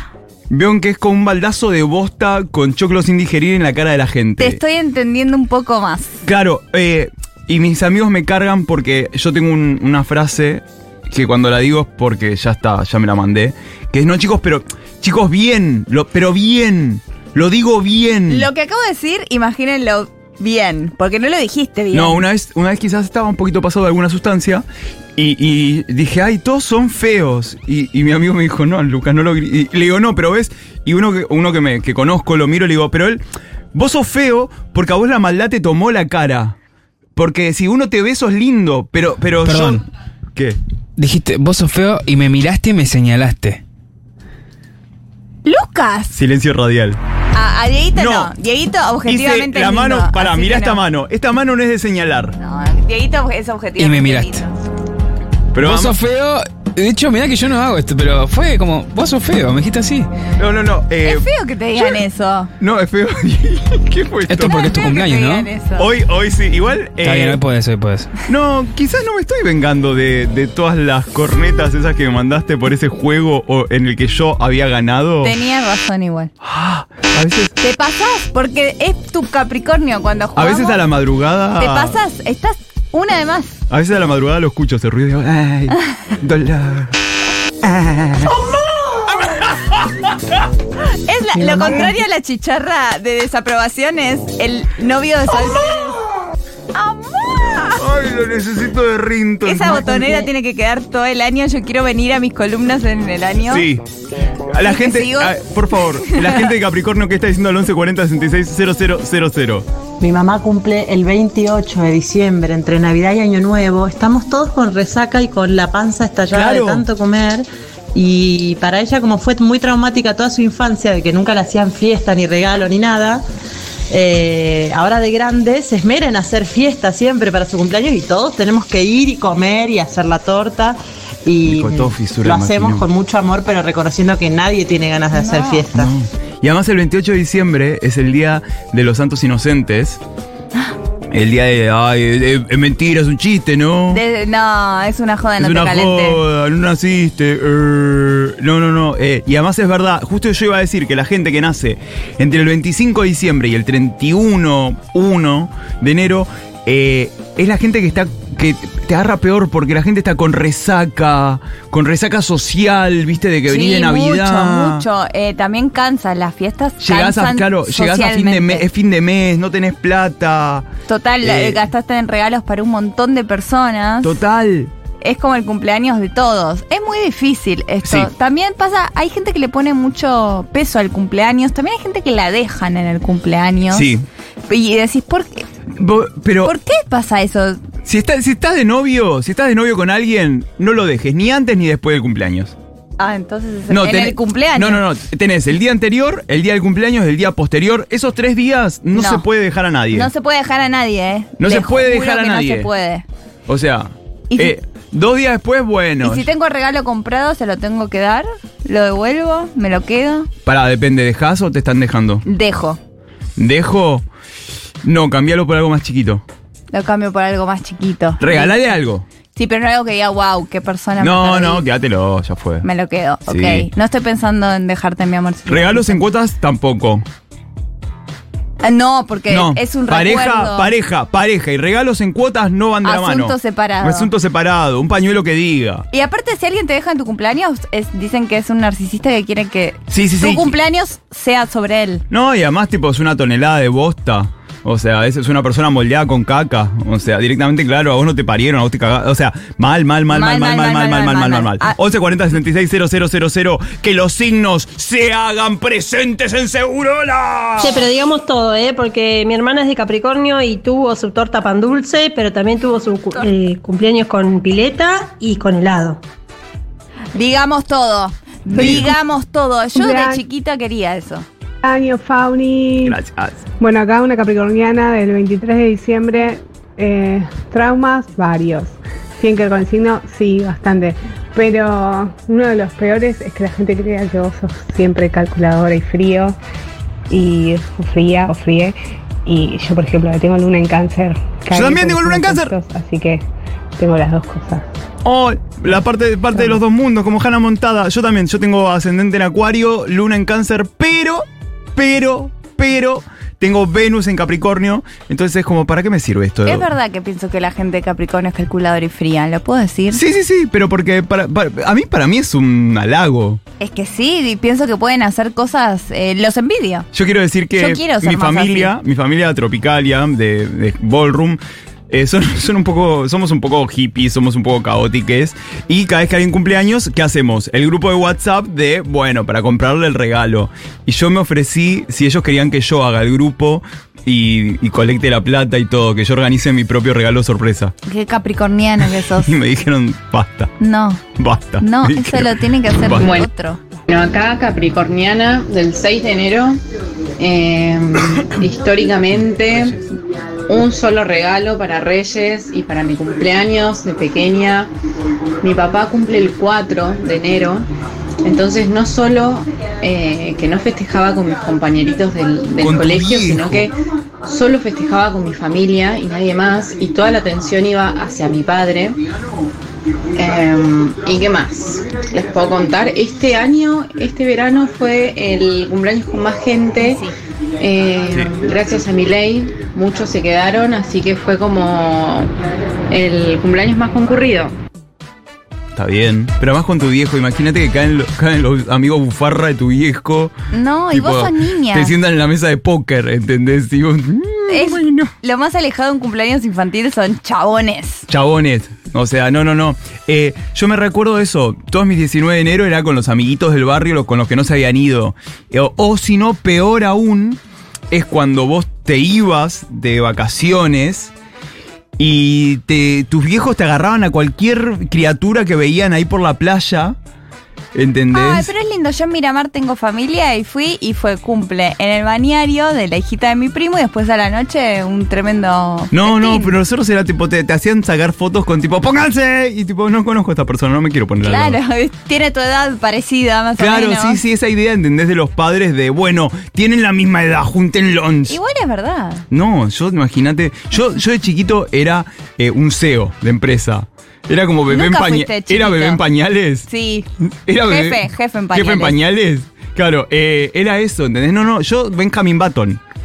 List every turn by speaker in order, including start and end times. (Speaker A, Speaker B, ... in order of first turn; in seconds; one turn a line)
Speaker A: 0.5-4.6
Speaker B: 4.4-6.2
Speaker A: 6.2-18.5
Speaker B: 18.3-22.2
Speaker A: 21.9-24.6
Speaker A: 25.2-33.2
Speaker A: 33.7-36.5
Speaker A: 37.1-39.8
Speaker C: 39.4-39.8
Speaker C: 41.0-43.6
Speaker B: 45.4-46.1
Speaker A: 46.1-47.0
Speaker B: 47.3-50.8
Speaker A: 47.9-48.3
Speaker A: 49.0-52.4
Speaker B: 52.4-54.5
Speaker C: 53.8-54.4
Speaker A: 55.5-56.0
Speaker C: 55.6-60.1
Speaker A: 60.4-61.2
Speaker B: 61.0-62.5
Speaker A: 62.6-64.6
Speaker C: 64.3-65.5
Speaker B: 64.4-65.9
Speaker A: 65.8-67.4
Speaker C: 67.0-68.1
Speaker A: 68.3-75.3
Speaker B: 75.2-76.3
Speaker A: 76.4-77.5
Speaker B: 77.6-80.8
Speaker A: 80.3-81.9
Speaker B: 81.6-83.6
Speaker A: 83.7-86.9
Speaker A: 87.6-88.3
Speaker A: 89.1-89.9
Speaker B: 91.0-96.0
Speaker A: 91.4-91.9
Speaker B: 96.7-97.8
Speaker A: 97.7-100.3
Speaker B: 99.4-103.6
Speaker A: 103.5-103.8
Speaker A: 104.5-109.7
Speaker B: 104.6-105.4
Speaker B: 106.0-106.5
Speaker D: 110.0-123.2
Speaker A: 116.3-116.8
Speaker D: 123.9-135.9
Speaker A: 131.4-132.8
Speaker B: 135.1-135.7
Speaker A: 135.7-140.0
Speaker A: 141.1-144.0
Speaker B: 143.9-146.2
Speaker A: 145.4-164.8
Speaker B: 163.5-168.7
Speaker A: 166.8-170.7
Speaker B: 170.9-174.1
Speaker A: 171.2-171.6
Speaker A: 174.0-174.7
Speaker B: 175.0-183.9
Speaker A: 183.7-184.0
Speaker B: 184.5-185.4
Speaker A: 185.7-186.5
Speaker B: 186.4-187.6
Speaker A: 187.8-192.5
Speaker B: 193.0-194.8
Speaker A: 193.7-200.1
Speaker B: 198.9-199.2
Speaker B: 199.9-203.0
Speaker A: 201.4-202.7
Speaker A: 203.5-206.2
Speaker B: 204.3-204.6
Speaker B: 206.0-210.3
Speaker A: 210.4-212.2
Speaker B: 212.2-212.8
Speaker A: 213.4-214.1
Speaker A: 214.8-216.2
Speaker B: 216.7-218.7
Speaker A: 218.2-219.0
Speaker B: 219.3-221.6
Speaker A: 221.0-222.6
Speaker B: 222.6-226.0
Speaker A: 223.3-223.7
Speaker A: 225.5-227.0
Speaker B: 228.6-230.7
Speaker A: 229.3-235.8
Speaker B: 232.8-234.1
Speaker B: 235.9-242.0
Speaker A: 239.9-240.5
Speaker A: 242.1-257.8
Speaker B: 250.1-251.7
Speaker E: 257.6-266.0
Speaker B: 267.1-271.2
Speaker A: 268.5-268.9
Speaker F: 269.7-270.2
Speaker F: 271.6-272.9
Speaker A: 272.8-273.4
Speaker F: 273.6-286.4
Speaker F: 287.1-294.6
Speaker A: 291.5-292.5
Speaker A: 295.0-306.7
Speaker B: 306.4-310.0
Speaker A: 309.9-313.4
Speaker B: 313.6-316.9
Speaker A: 316.9-337.7
Speaker B: 317.6-318.7
Speaker B: 337.9-339.3
Speaker A: 339.2-340.5
Speaker B: 340.6-341.0
Speaker A: 341.2-343.1
Speaker B: 341.6-343.6
Speaker G: 343.0-343.3
Speaker G: 343.9-346.6
Speaker G: 347.2-349.8
Speaker G: 350.5-354.7
Speaker G: 355.4-357.7
Speaker G: 358.2-363.7
Speaker A: 362.6-363.7
Speaker G: 364.2-369.0
Speaker G: 370.1-377.0
Speaker B: 376.8-377.1
Speaker G: 377.6-382.3
Speaker G: 382.9-384.5
Speaker A: 385.8-390.3
Speaker B: 390.5-391.9
Speaker A: 390.9-395.1
Speaker B: 394.5-398.1
Speaker A: 398.1-407.4
Speaker A: 407.9-411.1
Speaker A: 412.0-416.9
Speaker A: 417.7-418.5
Speaker B: 418.1-426.6
Speaker A: 425.9-431.6
Speaker B: 431.2-434.2
Speaker A: 433.6-438.4
Speaker B: 438.3-439.2
Speaker A: 439.3-446.7
Speaker B: 444.7-446.0
Speaker B: 446.7-447.1
Speaker A: 447.4-448.0
Speaker B: 447.6-448.9
Speaker A: 448.5-452.8